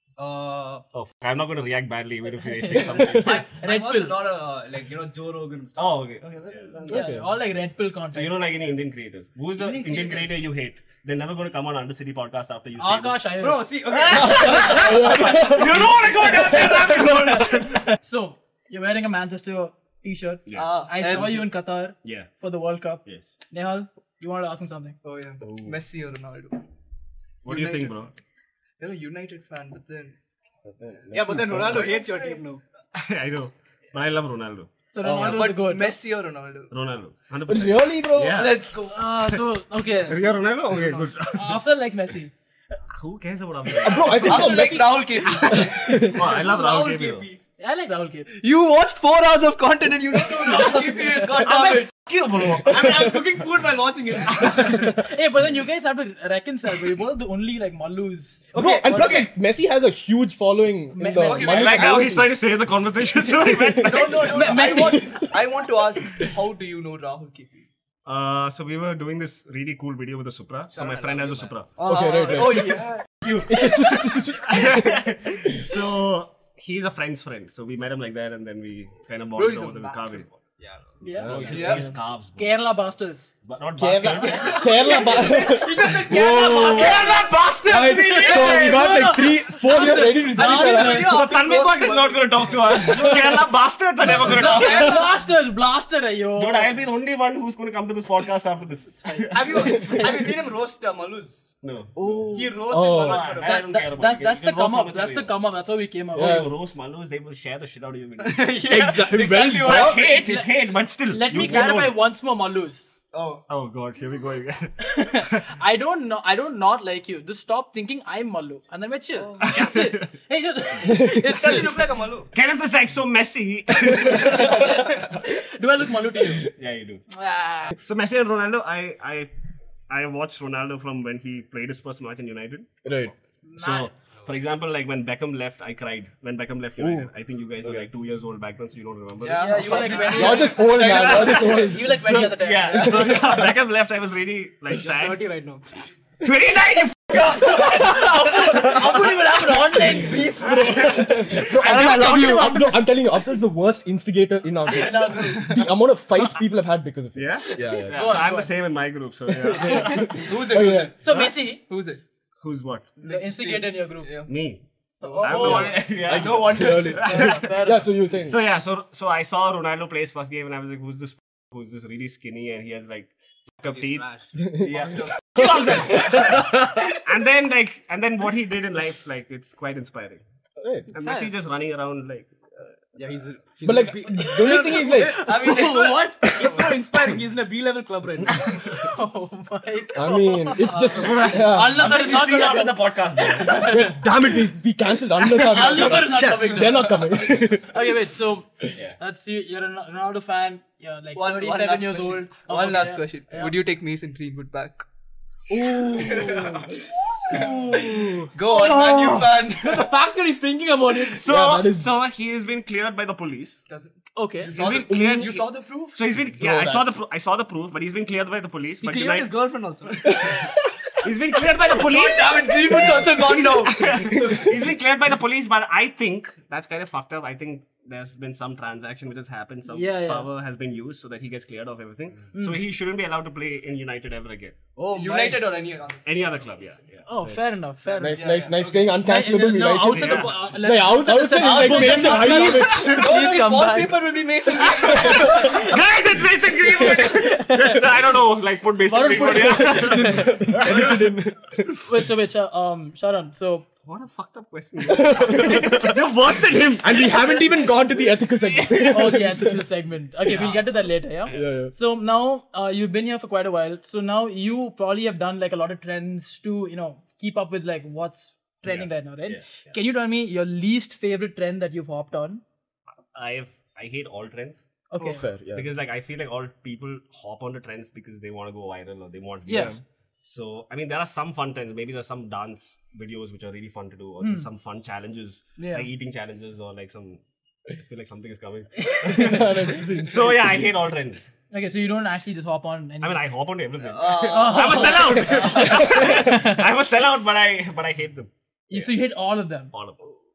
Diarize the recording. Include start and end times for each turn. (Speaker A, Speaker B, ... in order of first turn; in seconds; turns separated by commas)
Speaker A: 0.2-0.8, Speaker B: 0.9-3.4, Speaker A: 3.0-6.0, Speaker C: 3.5-4.3, Speaker B: 5.8-7.1, Speaker C: 6.9-8.4, Speaker D: 6.9-7.2, Speaker B: 8.1-13.3, Speaker C: 9.6-10.4, Speaker C: 12.8-13.7, Speaker A: 13.4-15.0, Speaker B: 13.9-17.9, Speaker D: 14.2-16.9, Speaker C: 18.0-25.0, Speaker B: 20.5-21.4, Speaker E: 20.5-21.4, Speaker B: 22.0-22.3, Speaker E: 25.0-26.7, Speaker D: 25.4-25.8, Speaker B: 27.4-28.1, Speaker E: 27.5-27.9, Speaker E: 28.8-30.1, Speaker D: 30.6-31.9, Speaker A: 31.1-32.6, Speaker E: 32.0-32.4, Speaker B: 32.9-34.7, Speaker C: 34.9-36.0, Speaker D: 35.0-35.5, Speaker E: 35.1-36.7, Speaker B: 36.7-38.7, Speaker D: 37.5-38.6, Speaker E: 38.3-39.2, Speaker C: 38.8-42.3, Speaker B: 40.0-41.6, Speaker B: 42.9-44.6, Speaker D: 43.8-46.2, Speaker E: 44.1-46.0, Speaker B: 46.0-47.3, Speaker A: 46.0-47.4, Speaker C: 47.6-48.3, Speaker E: 48.3-52.0, Speaker B: 51.3-53.2, Speaker A: 52.7-54.8, Speaker C: 54.6-58.5, Speaker E: 58.5-59.3, Speaker D: 58.5-62.3, Speaker C: 61.0-61.7, Speaker E: 61.2-62.2, Speaker B: 61.5-64.8, Speaker D: 63.4-64.1, Speaker C: 63.9-65.3, Speaker E: 63.9-67.7, Speaker D: 65.0-65.3, Speaker B: 68.1-71.8, Speaker A: 70.7-71.5, Speaker E: 71.8-73.1, Speaker D: 71.8-75.7, Speaker B: 73.2-80.3, Speaker E: 79.4-80.2, Speaker A: 80.6-80.9, Speaker C: 81.0-81.5, Speaker B: 81.1-82.8, Speaker D: 81.2-81.9, Speaker E: 81.5-81.9, Speaker C: 82.4-83.3, Speaker B: 83.4-85.2, Speaker D: 83.8-87.0, Speaker A: 85.3-87.3, Speaker E: 85.4-87.1, Speaker B: 86.1-88.5, Speaker D: 87.7-91.2, Speaker C: 88.1-91.2, Speaker E: 88.3-88.5, Speaker A: 90.4-91.3, Speaker E: 90.4-93.2, Speaker B: 91.0-95.2, Speaker D: 92.8-93.2, Speaker C: 94.1-96.8, Speaker E: 94.3-94.8, Speaker A: 94.5-95.0, Speaker B: 96.3-100.1, Speaker C: 99.0-99.5, Speaker A: 99.3-101.5, Speaker D: 99.6-100.1, Speaker B: 101.6-105.4, Speaker E: 102.0-102.6, Speaker A: 102.3-103.6, Speaker D: 102.7-103.3, Speaker C: 103.3-106.5, Speaker D: 106.1-106.5, Speaker B: 106.1-108.7, Speaker E: 108.3-110.0, Speaker A: 108.6-109.0, Speaker D: 108.7-110.0, Speaker B: 109.6-112.0, Speaker C: 110.0-113.0, Speaker D: 111.4-111.6, Speaker E: 113.1-113.4, Speaker B: 113.5-115.4, Speaker C: 114.8-121.7, Speaker B: 119.5-120.1, Speaker D: 120.9-121.5, Speaker A: 121.2-122.3, Speaker B: 122.3-124.9, Speaker C: 124.1-126.5, Speaker B: 126.5-127.0, Speaker C: 127.1-127.7, Speaker B: 127.8-129.3, Speaker B: 129.9-132.7, Speaker D: 132.8-133.1, Speaker C: 133.5-133.9, Speaker B: 133.6-145.3, Speaker D: 136.8-137.1, Speaker D: 137.6-137.9, Speaker E: 139.2-140.6, Speaker C: 139.3-143.2, Speaker D: 139.9-143.4, Speaker E: 142.8-143.2, Speaker A: 144.9-145.6, Speaker B: 146.2-148.7, Speaker C: 147.2-150.6, Speaker D: 149.9-158.2, Speaker E: 150.1-150.6, Speaker B: 150.4-152.9, Speaker E: 152.2-152.5, Speaker C: 154.7-155.7, Speaker B: 157.2-160.4, Speaker C: 157.7-158.5, Speaker D: 159.3-160.9, Speaker E: 159.7-162.0, Speaker C: 161.0-161.6, Speaker B: 162.4-162.9, Speaker E: 163.0-164.3, Speaker C: 163.0-164.1, Speaker B: 164.2-164.6, Speaker C: 165.0-165.8, Speaker E: 165.0-166.7, Speaker B: 165.2-167.4, Speaker D: 166.0-168.4, Speaker C: 166.6-167.9, Speaker B: 168.2-180.2, Speaker A: 173.7-174.3, Speaker D: 174.4-176.7, Speaker E: 174.8-175.2, Speaker D: 180.6-180.9, Speaker B: 180.9-182.7, Speaker C: 181.0-181.3, Speaker A: 183.0-188.4, Speaker D: 183.6-185.3, Speaker E: 184.9-186.2, Speaker C: 185.3-186.6, Speaker C: 188.6-194.1, Speaker D: 189.9-191.9, Speaker B: 190.9-193.8, Speaker D: 193.5-197.7, Speaker C: 195.2-203.6, Speaker E: 201.2-204.9, Speaker C: 205.5-206.4, Speaker E: 205.8-206.7, Speaker C: 207.3-208.3, Speaker E: 207.3-210.0, Speaker D: 208.5-209.4, Speaker A: 209.7-210.0, Speaker D: 211.0-211.9, Speaker B: 211.1-213.7, Speaker E: 213.7-216.0, Speaker C: 214.2-214.5, Speaker B: 214.5-219.3, Speaker D: 214.6-215.4, Speaker D: 216.4-217.0, Speaker A: 218.8-220.4, Speaker D: 220.2-220.5, Speaker B: 221.0-234.6, Speaker E: 221.8-224.2, Speaker C: 229.7-230.3, Speaker C: 232.3-232.6, Speaker A: 234.8-235.5, Speaker E: 234.9-236.1, Speaker B: 236.0-237.4, Speaker C: 237.1-244.0, Speaker D: 238.0-243.0, Speaker E: 238.0-238.7, Speaker B: 239.9-240.4, Speaker E: 241.4-245.4, Speaker B: 242.2-243.2, Speaker C: 244.7-245.8, Speaker B: 244.8-251.7, Speaker C: 246.8-247.8, Speaker C: 248.9-250.2, Speaker D: 249.6-251.7, Speaker C: 251.8-253.7, Speaker B: 253.8-257.2, Speaker D: 254.8-256.0, Speaker D: 256.8-259.6, Speaker C: 258.9-272.4, Speaker D: 261.3-261.7, Speaker B: 268.6-269.7, Speaker B: 273.1-274.6, Speaker C: 274.9-275.3, Speaker D: 274.9-275.7, Speaker B: 275.5-291.3, Speaker C: 279.5-279.8, Speaker D: 279.5-279.8, Speaker C: 284.2-284.5, Speaker C: 285.6-285.9, Speaker D: 289.0-290.7, Speaker C: 291.5-293.3, Speaker B: 293.0-298.9, Speaker E: 293.9-295.1, Speaker C: 294.2-296.6, Speaker C: 298.7-299.7, Speaker B: 299.7-300.0